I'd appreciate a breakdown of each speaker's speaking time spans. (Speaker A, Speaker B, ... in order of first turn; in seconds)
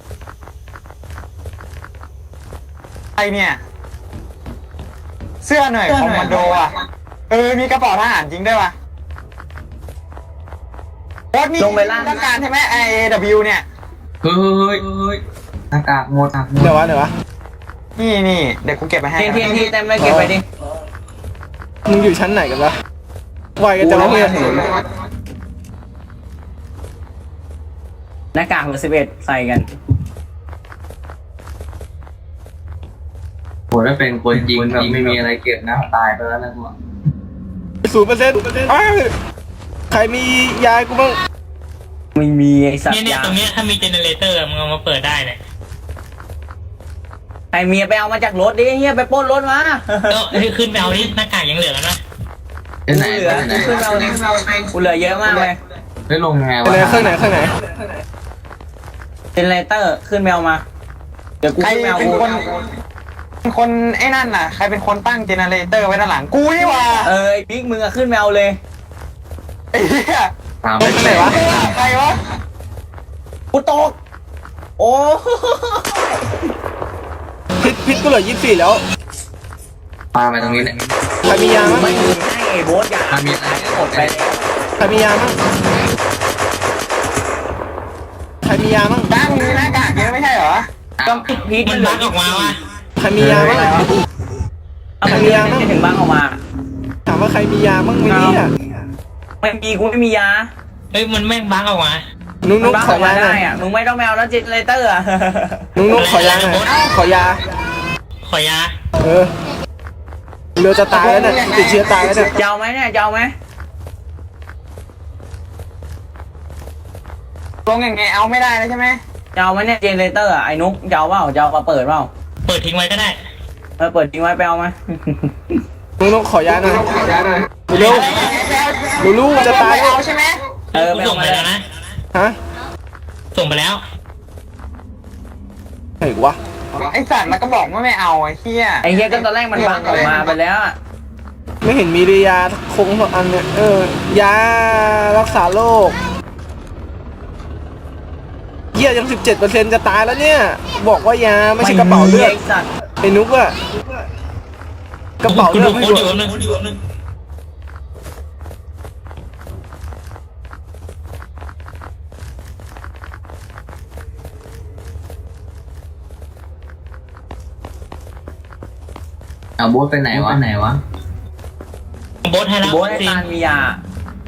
Speaker A: 3.2-3.6, 5.4-6.7, 7.3-8.7, 11.3-13.7, 18.0-19.7, 61.6-62.6, 63.5-67.1, 69.7-70.3, 70.9-72.2, 89.1-90.7, 110.9-112.3, 117.7-119.0, 127.8-130.4, 136.8-140.3
Speaker B: 5.9-6.6, 11.6-12.2, 19.2-20.4, 23.8-24.7, 28.3-29.7, 42.1-43.4, 47.5-50.4, 52.9-54.2, 54.7-55.6, 59.4-60.6, 61.4-62.3, 67.0-68.6, 73.5-74.0, 74.8-76.4, 81.6-84.5, 91.0-92.6, 93.3-93.9, 95.0-96.4, 98.0-98.4, 99.4-100.5, 102.6-105.7, 112.3-113.3, 119.3-122.1, 123.8-125.6, 130.7-131.5, 138.8-140.8, 151.6-152.7, 172.6-173.8
Speaker C: 14.2-16.8, 33.7-36.7, 52.9-54.0, 56.1-57.3, 70.6-71.8, 80.1-80.8, 83.1-84.2, 91.0-91.3, 93.2-93.7, 169.6-170.8
Speaker D: 16.6-17.1, 20.0-20.3, 21.9-22.8, 23.6-24.6, 37.8-39.1, 39.9-41.2, 56.6-57.5, 70.8-71.4, 77.6-78.8, 81.2-82.0, 84.8-85.4, 88.4-89.1, 93.0-93.8, 95.0-95.7, 97.1-98.5, 102.4-103.4, 105.8-107.4, 109.0-109.3, 110.6-112.3, 126.0-127.0, 127.7-128.3, 129.0-130.0, 136.0-136.4, 141.6-146.0, 148.8-152.3, 153.0-153.6, 155.2-156.1
Speaker E: 42.9-45.4, 50.1-52.0, 91.4-92.6, 100.9-102.0, 105.9-106.7, 108.2-108.7, 122.5-123.2, 127.8-128.1, 130.8-131.7, 133.3-133.8, 155.3-156.8, 172.2-173.2